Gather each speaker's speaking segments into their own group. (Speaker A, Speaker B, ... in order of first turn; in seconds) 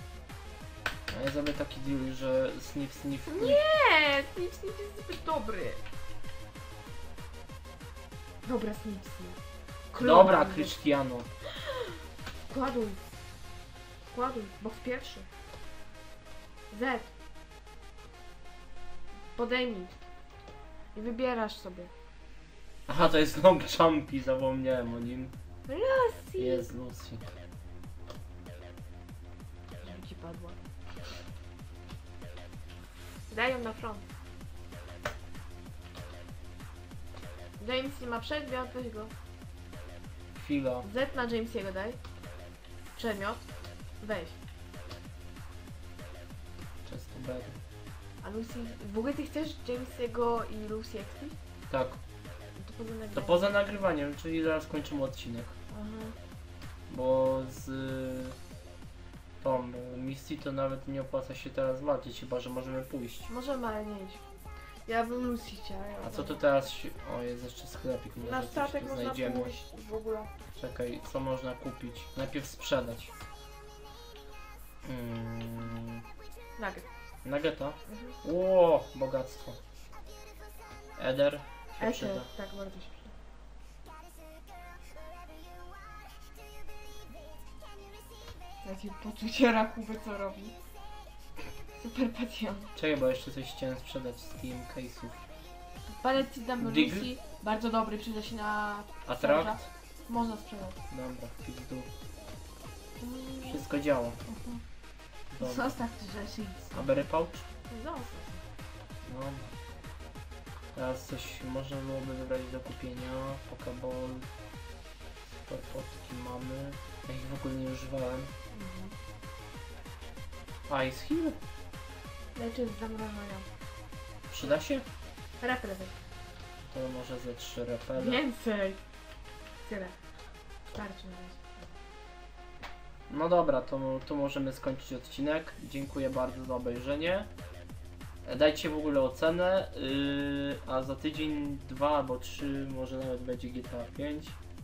Speaker A: 1.1-3.6, 10.0-11.3, 22.9-25.3, 26.4-27.2, 40.4-40.9, 46.9-47.6, 51.7-52.0, 53.1-55.5, 56.9-58.4, 59.4-63.3, 66.0-69.5, 70.6-73.1, 74.8-76.0, 77.2-79.6, 81.0-82.3, 92.8-95.2, 96.6-97.1, 99.1-99.7, 100.9-101.9, 103.4-104.2, 105.3-105.8, 106.7-107.5, 109.0-109.5, 110.7-114.3, 115.5-118.3, 120.7-121.4, 124.3-124.8, 126.7-128.2, 133.1-137.3, 138.2-144.4
Speaker B: 3.3-5.8, 8.4-9.4, 9.9-10.7, 11.5-11.9, 12.5-13.1, 14.1-15.3, 16.7-17.1, 19.4-19.9, 20.9-21.9, 25.7-26.6, 29.8-30.6, 33.3-34.0, 37.6-39.1, 40.8-42.0, 43.0-43.4, 44.0-44.4, 48.2-51.4, 52.6-53.5, 55.7-56.1, 63.3-64.2, 64.9-66.4, 68.2-70.3, 76.6-76.8, 77.9-78.1, 81.8-83.1, 88.6-90.5, 91.8-92.7, 96.0-100.8, 103.0-103.6, 104.3-104.6, 105.4-106.7, 107.7-108.4, 118.5-118.9, 122.3-123.5, 125.4-125.9, 128.0-128.8, 129.7-129.9, 130.7-131.7